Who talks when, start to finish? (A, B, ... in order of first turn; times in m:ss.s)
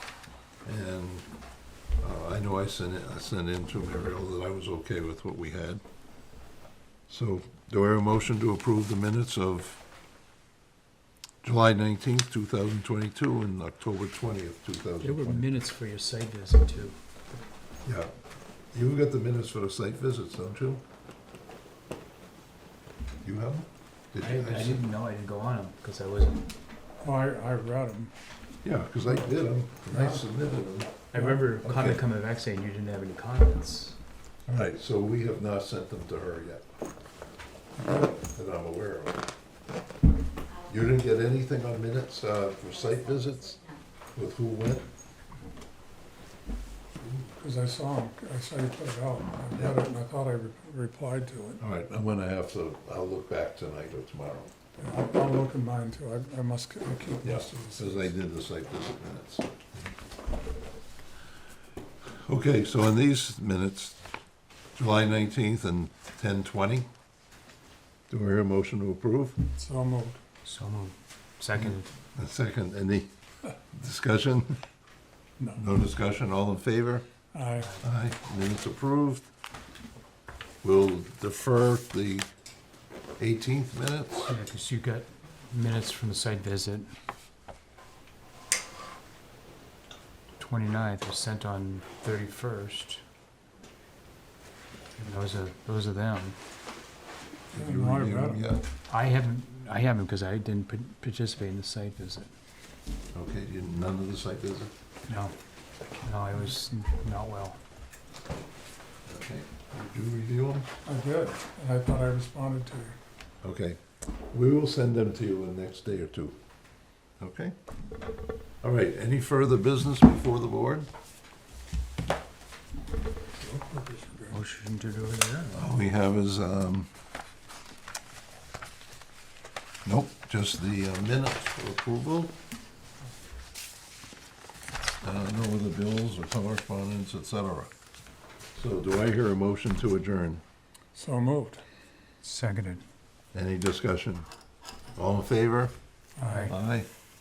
0:00.6-0:01.3 A
0:02.0-0:05.8 A
0:07.1-0:09.8 A
0:11.4-0:15.5 A
0:15.0-0:17.0 B
0:17.8-0:18.1 A
0:18.7-0:20.8 A
0:23.2-0:24.8 A
0:24.2-0:26.5 B
0:27.0-0:28.1 C
0:28.6-0:31.1 A
0:29.9-0:30.2 C
0:31.1-0:34.0 B
0:31.1-0:31.5 C
0:31.6-0:32.0 A
0:34.5-0:36.6 A
0:37.8-0:38.1 C
0:38.0-0:39.2 A
0:40.6-0:44.9 A
0:47.4-0:51.6 C
0:51.6-0:54.5 A
0:54.8-0:58.1 C
0:57.2-0:59.9 A
1:02.0-1:04.0 A
1:04.8-1:06.9 A
1:08.1-1:09.4 A
1:09.5-1:10.2 C
1:10.4-1:11.9 B
1:11.5-1:13.1 A
1:13.7-1:14.6 A
1:15.4-1:15.7 C
1:15.6-1:17.0 A
1:17.3-1:17.7 C
1:17.6-1:17.9 B
1:17.8-1:19.3 A
1:20.6-1:22.3 A
1:23.2-1:24.3 A
1:24.3-1:26.9 B
1:30.4-1:33.0 B
1:35.0-1:36.4 B
1:37.5-1:38.6 A
1:37.5-1:38.4 C
1:38.9-1:42.3 B
1:43.1-1:44.7 A
1:45.1-1:45.3 B
1:45.9-1:47.6 B
1:49.0-1:50.7 A
1:50.8-1:53.0 C
1:53.4-1:53.8 A
1:54.3-1:56.4 A
1:57.2-1:57.5 A
1:58.6-2:00.9 A
2:03.4-2:04.3 C
2:04.3-2:05.8 B
2:05.5-2:06.9 A
2:09.8-2:12.3 A
2:15.0-2:17.7 A
2:18.5-2:20.4 A
2:20.9-2:21.6 C
2:22.2-2:22.8 B
2:23.3-2:24.2 A
2:25.0-2:25.7 A
2:26.2-2:26.5 C
2:26.2-2:26.5 B
2:26.5-2:26.9 A